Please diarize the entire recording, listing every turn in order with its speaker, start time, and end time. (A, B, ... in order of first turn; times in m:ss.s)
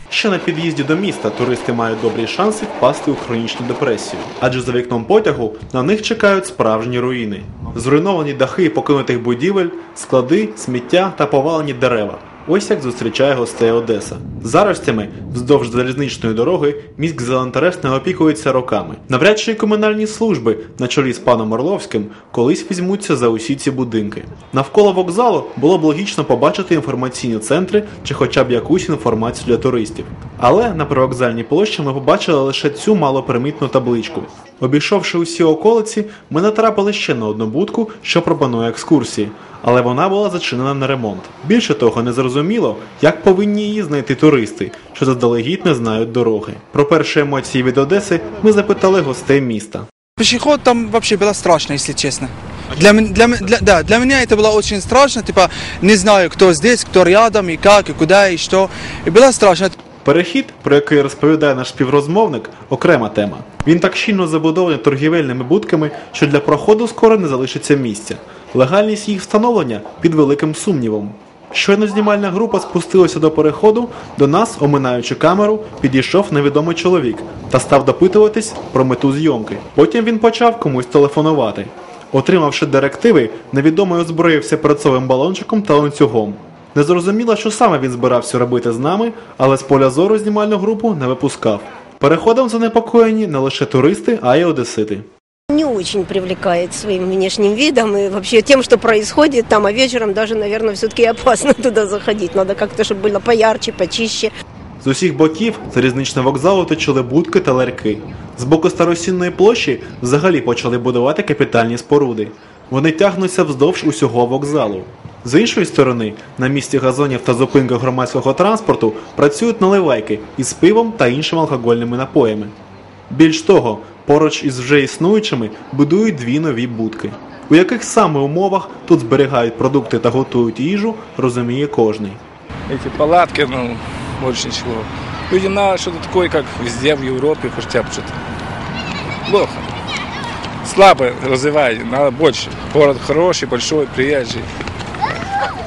0:00.1-0:49.9 A
0:50.2-0:59.7 B
1:00.0-1:35.1 A
1:35.5-1:44.3 C
1:44.8-2:02.6 A
2:03.1-2:12.2 A
2:12.7-2:18.2 D
2:19.3-2:19.7 D
2:20.6-2:24.5 D